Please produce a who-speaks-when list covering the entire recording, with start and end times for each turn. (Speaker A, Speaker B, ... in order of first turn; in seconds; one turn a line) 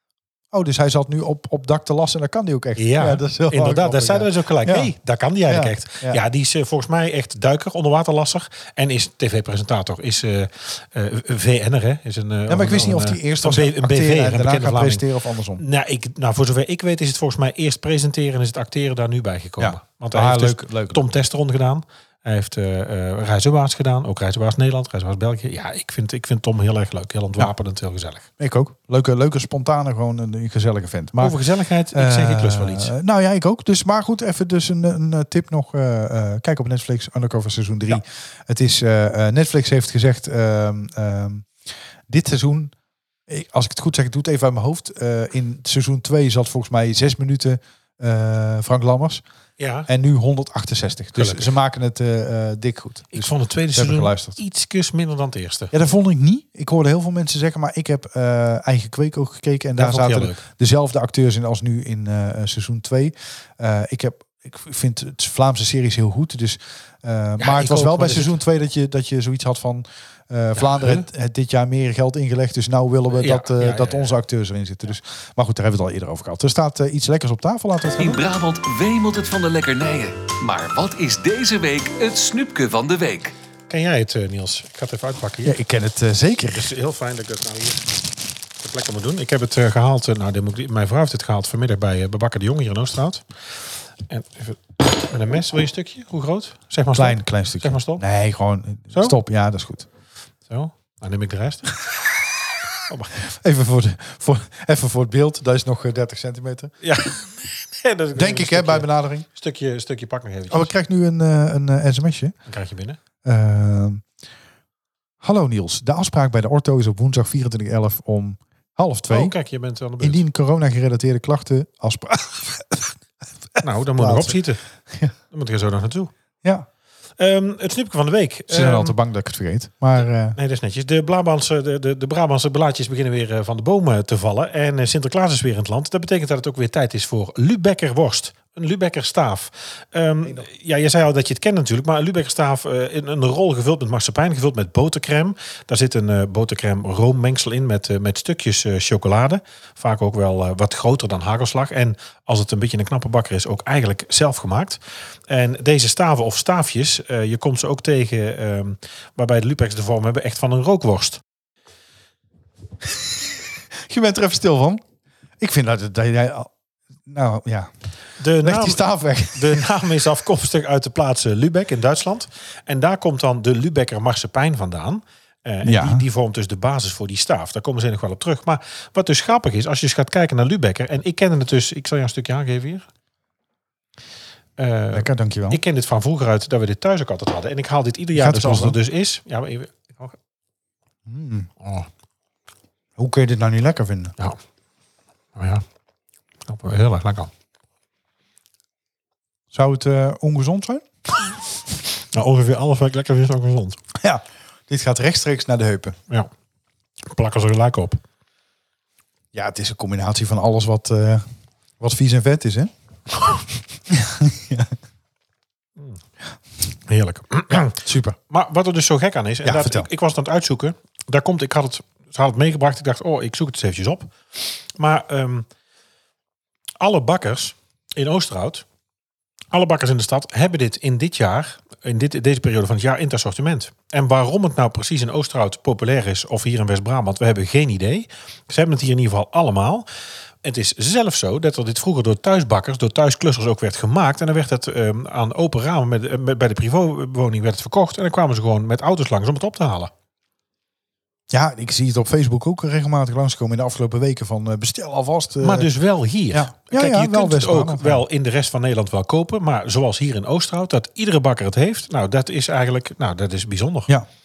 Speaker A: 0.5-4.9
Speaker B: 2.8-15.1
Speaker A: 5.5-6.2
Speaker A: 12.5-15.6
Speaker B: 15.6-28.3
Speaker A: 19.6-21.1
Speaker A: 28.4-31.4
Speaker B: 31.2-32.9
Speaker A: 31.9-41.5
Speaker A: 42.1-42.7
Speaker A: 43.3-49.2
Speaker B: 49.6-49.9
Speaker A: 49.9-54.4
Speaker B: 51.2-51.5
Speaker B: 53.1-55.7
Speaker A: 55.7-78.2
Speaker B: 59.8-60.4
Speaker B: 67.4-68.4
Speaker B: 70.5-71.1
Speaker B: 73.1-74.2
Speaker C: 78.0-83.3
Speaker B: 83.7-85.6
Speaker A: 85.4-86.7
Speaker B: 86.5-87.9
Speaker B: 88.6-93.2
Speaker B: 94.1-98.0
Speaker A: 96.9-99.9
Speaker B: 100.5-101.8
Speaker B: 102.9-103.2
Speaker A: 103.2-106.7
Speaker B: 106.8-110.7
Speaker A: 108.2-109.3
Speaker A: 110.5-112.3
Speaker B: 112.5-113.0
Speaker A: 113.2-114.0
Speaker A: 115.2-119.3
Speaker B: 119.1-120.2
Speaker A: 120.0-122.9
Speaker A: 123.6-124.4
Speaker B: 123.6-124.6
Speaker B: 125.3-126.1
Speaker B: 127.2-129.0
Speaker A: 128.5-130.4
Speaker B: 130.3-161.2
Speaker A: 163.9-164.8
Speaker A: 165.4-166.5
Speaker A: 167.1-167.7
Speaker B: 168.2-182.9
Speaker A: 168.4-169.7
Speaker A: 175.6-176.0
Speaker B: 184.6-190.2
Speaker A: 184.9-185.6
Speaker A: 188.2-188.8
Speaker A: 191.1-191.5
Speaker B: 191.6-191.9
Speaker A: 193.0-194.1
Speaker B: 195.4-195.6
Speaker B: 196.5-197.3
Speaker A: 199.5-200.9
Speaker B: 202.1-203.8
Speaker A: 204.0-206.0
Speaker B: 207.1-208.0
Speaker A: 209.3-211.2
Speaker A: 211.8-212.7
Speaker A: 213.9-214.7
Speaker B: 216.9-225.5
Speaker A: 217.5-218.2
Speaker A: 219.4-219.9
Speaker B: 226.8-228.7
Speaker B: 229.5-239.9
Speaker B: 240.4-249.9
Speaker A: 251.3-255.7
Speaker B: 255.4-263.9
Speaker A: 256.3-258.0